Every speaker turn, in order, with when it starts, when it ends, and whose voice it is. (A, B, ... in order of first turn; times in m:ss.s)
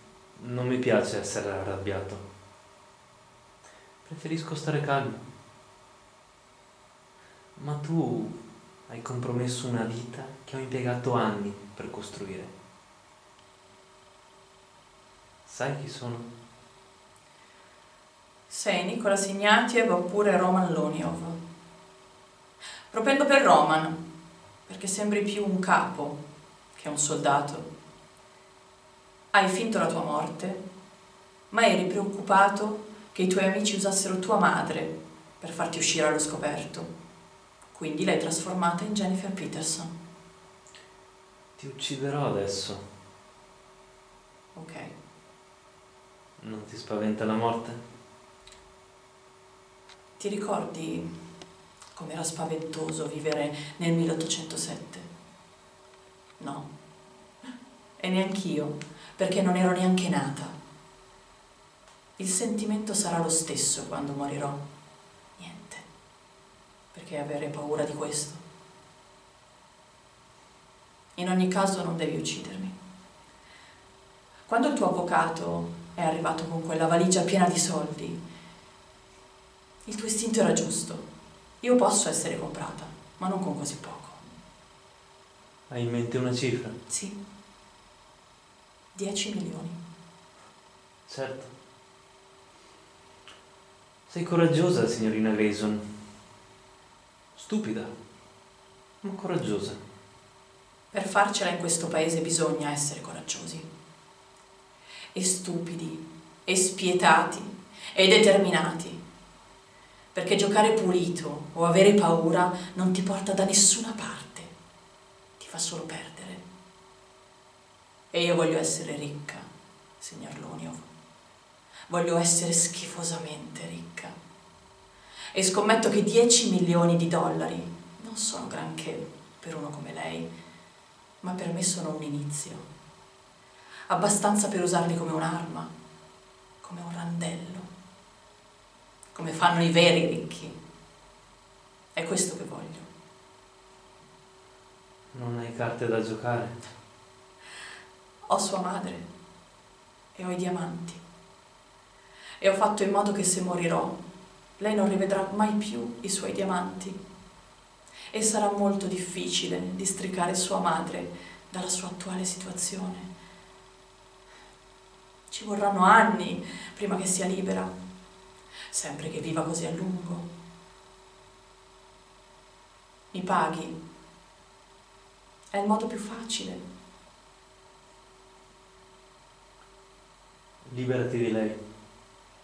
0:00.4-0:02.2 A
0:04.0-0:05.2 A
0:07.6-0:08.4 A
0:08.9-0:12.5 A
0:15.4-0:16.3 A
0:18.5-0:21.4 B
0:22.9-0:24.0 B
0:24.6-0:26.2 B
0:26.7-0:27.7 B
0:29.3-0:30.6 B
0:31.5-0:36.9 B
0:37.7-0:39.9 B
0:41.6-0:42.8 A
0:44.5-0:44.9 B
0:46.4-0:47.8 A
0:50.2-0:51.1 B
0:51.9-0:55.1 B
0:56.4-0:56.7 B
0:58.0-1:00.6 B
1:02.2-1:04.6 B
1:05.4-1:05.9 B
1:06.9-1:08.4 B
1:11.1-1:12.7 B
1:14.5-1:18.2 B
1:19.8-1:21.0 B
1:21.6-1:24.2 B
1:25.7-1:26.8 A
1:26.9-1:27.2 B
1:28.9-1:29.8 B
1:31.0-1:31.5 A
1:34.1-1:35.8 A
1:37.3-1:37.9 A
1:39.0-1:39.8 A
1:40.9-1:43.7 B
1:45.1-1:49.0 B
1:50.1-1:54.5 B
1:55.4-1:56.4 B
1:58.1-1:59.5 B
2:00.0-2:00.9 B
2:01.9-2:04.2 B
2:05.3-2:10.3 B
2:11.2-2:12.6 B
2:13.9-2:15.7 B
2:16.6-2:17.7 B
2:19.1-2:20.6 B
2:21.9-2:22.9 B
2:25.1-2:26.6 A
2:28.3-2:29.1 B
2:30.1-2:31.0 B
2:32.4-2:34.0 B
2:34.6-2:37.0 B
2:38.1-2:43.1 B
2:45.3-2:47.7 B
2:48.7-2:50.3 B
2:53.1-2:53.8 B
2:55.5-2:56.6 B
3:00.6-3:01.6 A